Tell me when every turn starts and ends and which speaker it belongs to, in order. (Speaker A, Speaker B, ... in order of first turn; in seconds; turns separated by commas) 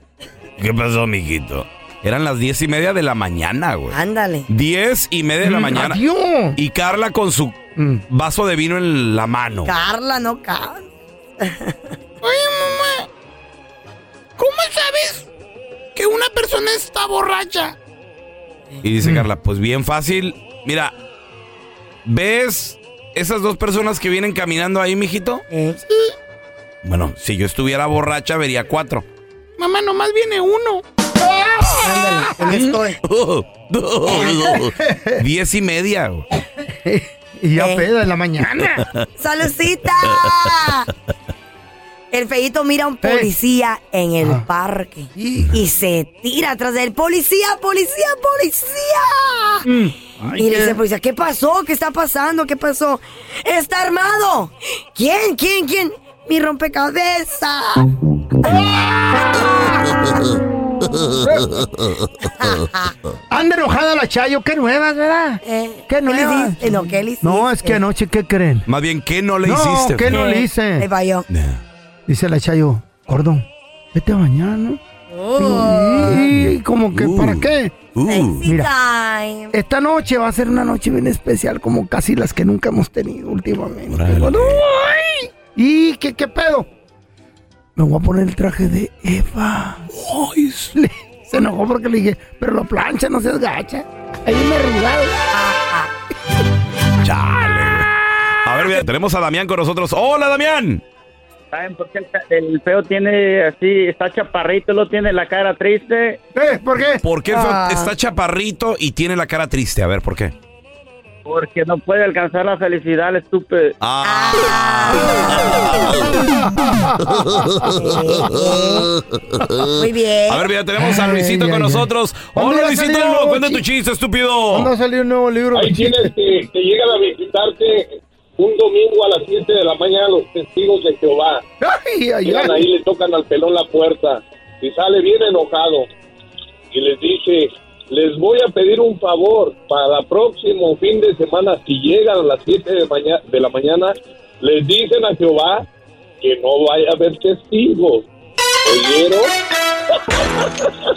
Speaker A: 0.6-4.0, Speaker B: 3.9-4.5, Speaker A: 4.5-6.0, Speaker C: 5.4-6.6, Speaker A: 6.5-7.6, Speaker C: 7.8-8.0, Speaker A: 8.1-9.7, Speaker B: 9.7-10.9, Speaker B: 11.4-11.9, Speaker D: 12.2-13.0, Speaker D: 14.4-15.2, Speaker D: 15.9-17.7, Speaker A: 18.8-20.9, Speaker A: 22.0-25.4, Speaker B: 25.5-25.8, Speaker A: 26.8-29.0, Speaker D: 29.6-30.8, Speaker C: 31.2-32.3, Speaker B: 31.8-33.0, Speaker A: 32.4-36.2, Speaker C: 34.2-35.2, Speaker C: 36.8-38.9, Speaker B: 37.6-37.9, Speaker B: 39.2-40.9, Speaker B: 42.1-49.7, Speaker C: 43.0-43.3, Speaker C: 45.1-45.5, Speaker C: 49.6-50.8, Speaker B: 50.3-58.6, Speaker C: 58.5-59.8, Speaker C: 61.1-61.6, Speaker B: 62.2-62.9, Speaker C: 63.3-68.7, Speaker B: 65.4-67.8, Speaker A: 68.7-70.2, Speaker C: 69.4-70.9, Speaker B: 70.1-71.2, Speaker A: 71.3-71.6, Speaker C: 72.1-74.8, Speaker B: 75.1-76.2, Speaker C: 75.4-77.8, Speaker A: 76.1-78.5, Speaker B: 78.0-79.5, Speaker C: 79.5-86.7, Speaker A: 83.9-84.6, Speaker C: 87.8-89.9, Speaker A: 89.9-90.6, Speaker C: 90.7-95.2, Speaker B: 95.3-95.9, Speaker A: 97.0-97.9, Speaker A: 98.4-100.8, Speaker E: 101.5-106.2, Speaker C: 106.3-107.0, Speaker A: 107.0-110.3, Speaker B: 107.3-107.9, Speaker E: 111.2-113.7, Speaker A: 113.8-116.1, Speaker B: 114.0-116.1, Speaker C: 116.0-118.3, Speaker B: 117.6-118.9, Speaker B: 119.7-120.5, Speaker A: 120.3-124.7, Speaker C: 120.8-123.6, Speaker C: 124.5-126.1, Speaker F: 125.5-131.4, Speaker C: 131.6-132.7, Speaker F: 132.2-135.9, Speaker F: 136.7-145.6, Speaker F: 146.2-148.0, Speaker F: 148.6-149.3, Speaker F: 150.2-150.7